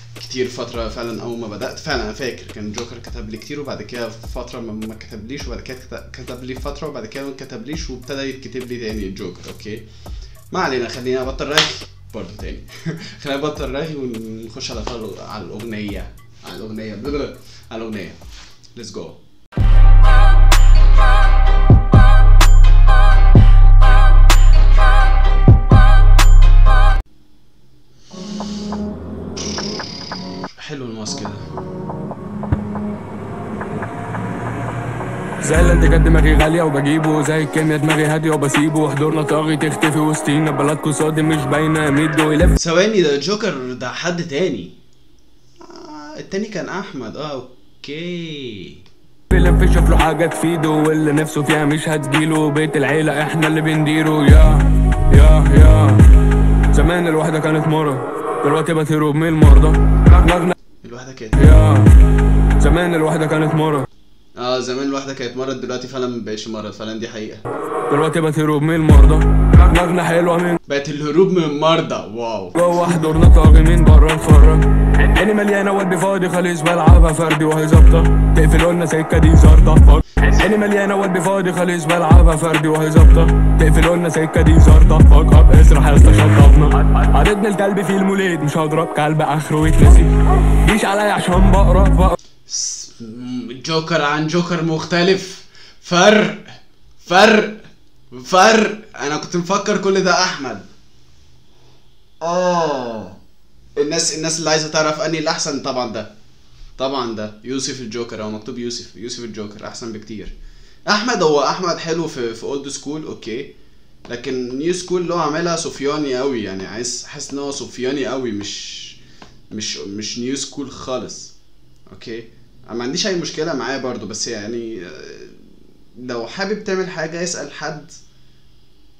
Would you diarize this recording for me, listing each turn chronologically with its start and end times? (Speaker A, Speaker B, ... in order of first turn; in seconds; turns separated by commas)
Speaker A: 0.2-9.8, Speaker A: 10.5-18.2, Speaker A: 18.8-19.2, Speaker A: 30.6-31.4, Speaker B: 35.4-42.5, Speaker A: 42.5-44.8, Speaker A: 45.6-48.8, Speaker B: 49.3-56.1, Speaker B: 56.7-60.5, Speaker A: 60.8-61.5, Speaker B: 61.3-62.0, Speaker B: 62.6-63.9, Speaker A: 64.4-67.4, Speaker B: 67.9-70.6, Speaker A: 70.7-72.6, Speaker B: 72.5-92.2, Speaker A: 92.5-100.7, Speaker A: 102.2-103.2, Speaker A: 103.8-106.1, Speaker A: 106.8-110.3, Speaker A: 110.9-113.5, Speaker A: 114.1-119.0, Speaker A: 119.5-121.3, Speaker A: 121.9-128.0